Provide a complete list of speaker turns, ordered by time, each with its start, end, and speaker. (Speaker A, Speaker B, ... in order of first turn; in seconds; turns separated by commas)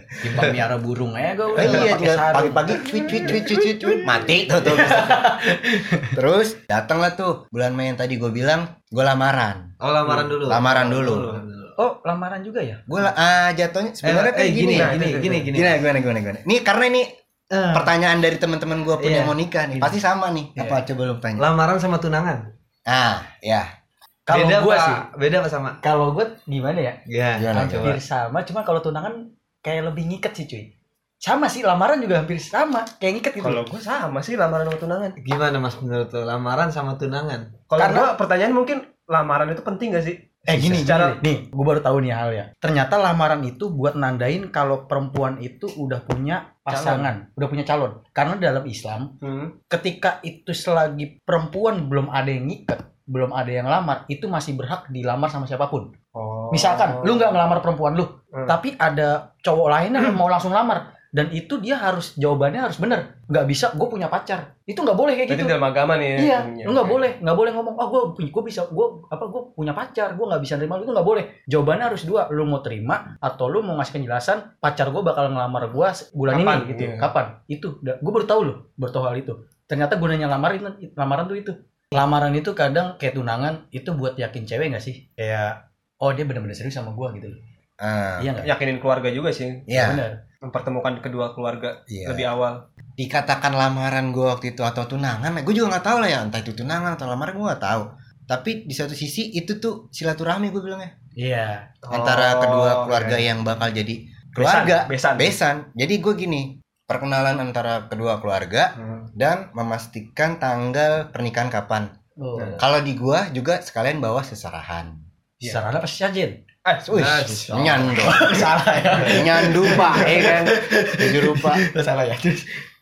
Speaker A: 0.2-2.7, Speaker B: 1.6-5.3, Speaker A: 4.7-6.1, Speaker B: 6.1-9.7, Speaker C: 9.8-11.7, Speaker B: 10.4-11.4, Speaker A: 11.8-12.8, Speaker B: 12.9-15.0, Speaker C: 14.0-15.8, Speaker D: 14.7-15.5, Speaker B: 15.5-17.1, Speaker C: 17.5-17.9, Speaker B: 17.7-21.5, Speaker C: 19.0-19.4, Speaker C: 21.4-22.4, Speaker B: 22.9-23.7, Speaker A: 24.3-25.1, Speaker C: 24.3-25.8, Speaker A: 25.8-27.0, Speaker C: 27.1-28.0, Speaker B: 27.4-28.0, Speaker A: 27.5-30.7, Speaker A: 31.2-33.6, Speaker D: 33.4-35.2, Speaker C: 35.2-37.6, Speaker D: 37.7-41.2, Speaker A: 37.8-38.1, Speaker A: 40.5-49.1, Speaker B: 40.6-40.9, Speaker D: 46.7-47.1, Speaker D: 49.2-49.5, Speaker A: 49.7-55.9, Speaker D: 56.1-57.3, Speaker A: 56.5-65.6, Speaker D: 65.3-67.1, Speaker A: 66.2-87.4, Speaker D: 76.3-77.1, Speaker B: 87.8-88.4, Speaker A: 88.2-88.5, Speaker D: 88.4-89.7, Speaker B: 89.7-90.0, Speaker A: 89.8-90.2, Speaker D: 90.4-92.6, Speaker B: 91.9-92.3, Speaker B: 93.0-100.9, Speaker A: 101.2-101.7, Speaker D: 101.8-103.3, Speaker B: 101.9-111.9, Speaker D: 104.4-105.3, Speaker A: 112.2-112.6, Speaker B: 112.6-115.0, Speaker A: 115.4-116.4, Speaker D: 116.7-117.4, Speaker B: 116.8-121.7, Speaker C: 116.9-117.8, Speaker A: 117.3-122.6